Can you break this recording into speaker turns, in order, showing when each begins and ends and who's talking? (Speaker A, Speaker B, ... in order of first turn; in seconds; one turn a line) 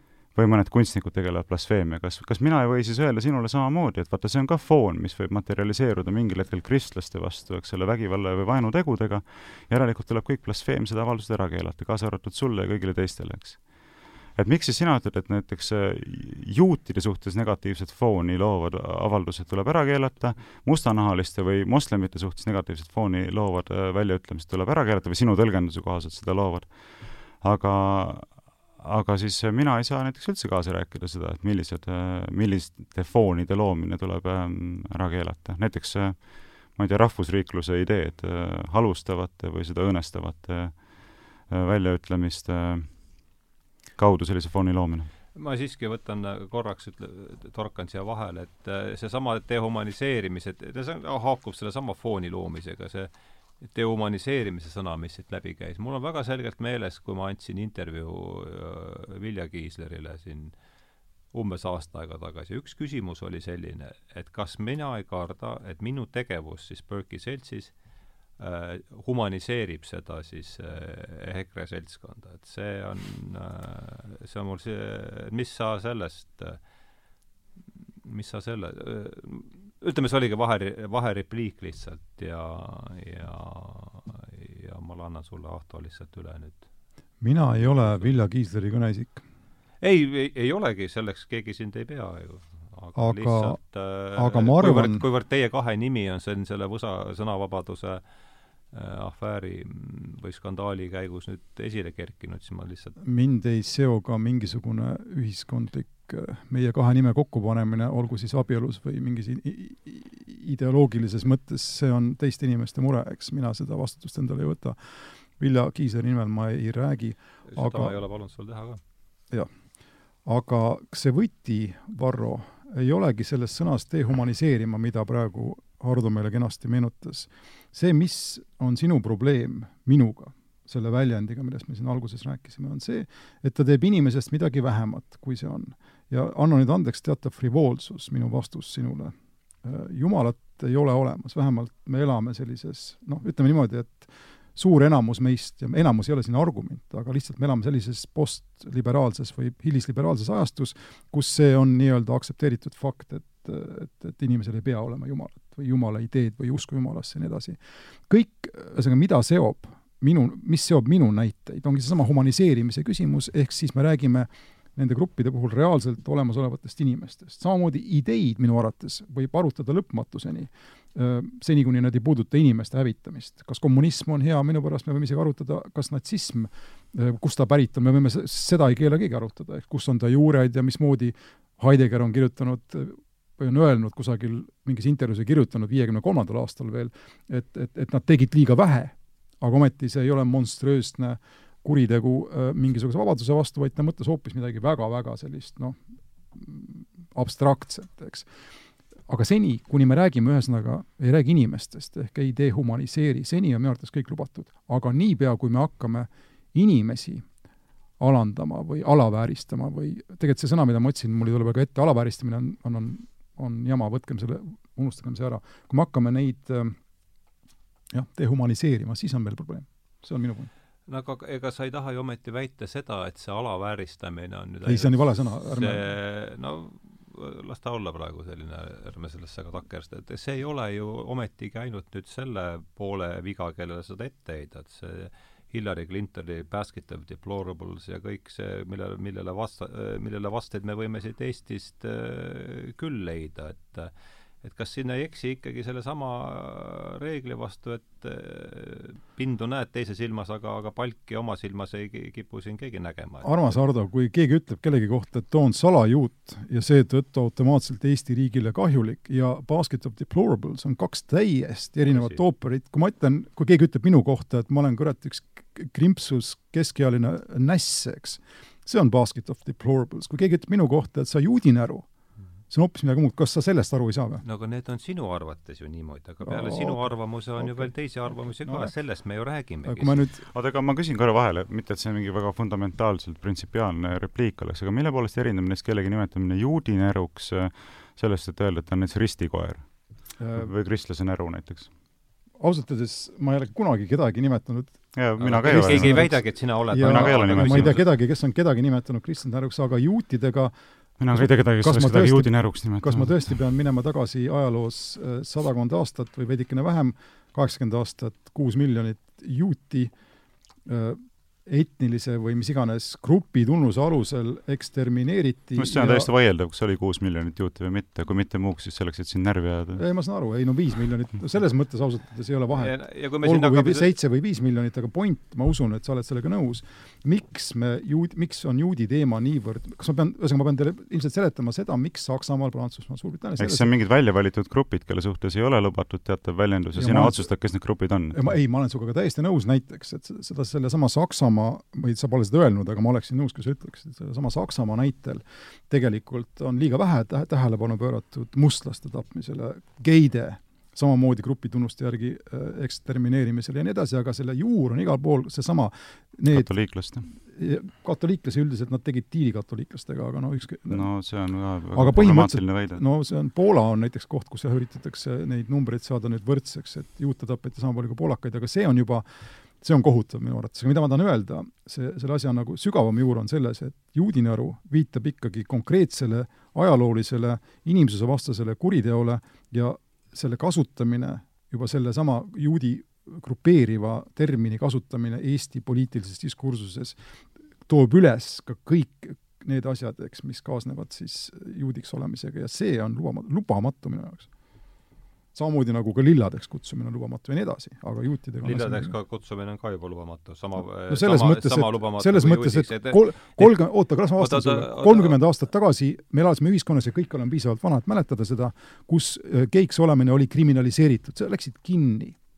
Speaker A: 0.3-43.3
Speaker A: 44.0-45.1
Speaker B: 45.3-53.1
Speaker B: 53.6-60.5
Speaker B: 61.3-67.8
Speaker B: 68.4-76.6
Speaker B: 78.0-86.6
Speaker C: 87.2-89.2
Speaker B: 87.6-88.1
Speaker B: 89.8-98.0
Speaker C: 93.0-93.6
Speaker C: 94.1-95.0
Speaker B: 98.7-103.0
Speaker C: 103.0-118.0
Speaker B: 117.5-118.8
Speaker C: 120.2-195.8
Speaker C: 196.3-198.3
Speaker C: 199.1-207.2
Speaker C: 208.0-216.7
Speaker C: 217.9-220.5
Speaker B: 220.9-253.6
Speaker C: 224.6-225.8
Speaker C: 253.2-271.9
Speaker B: 261.9-262.2
Speaker C: 272.5-274.2
Speaker B: 274.2-280.0
Speaker C: 276.2-278.7
Speaker C: 279.6-280.2
Speaker A: 280.3-291.7
Speaker C: 290.2-290.5
Speaker C: 292.4-294.8
Speaker A: 294.9-297.8
Speaker B: 295.2-297.9
Speaker C: 295.4-300.5
Speaker A: 301.0-303.3
Speaker C: 301.1-309.9
Speaker C: 310.6-316.1
Speaker A: 315.6-319.8
Speaker C: 319.7-333.7
Speaker B: 322.5-323.9
Speaker A: 333.4-338.3
Speaker C: 336.7-337.2
Speaker C: 338.1-356.5
Speaker A: 356.3-357.1
Speaker C: 357.1-360.9
Speaker A: 360.7-362.8
Speaker C: 361.7-387.0
Speaker C: 387.6-394.3
Speaker C: 395.3-398.9
Speaker B: 398.4-403.6
Speaker C: 400.9-412.2
Speaker B: 404.2-405.2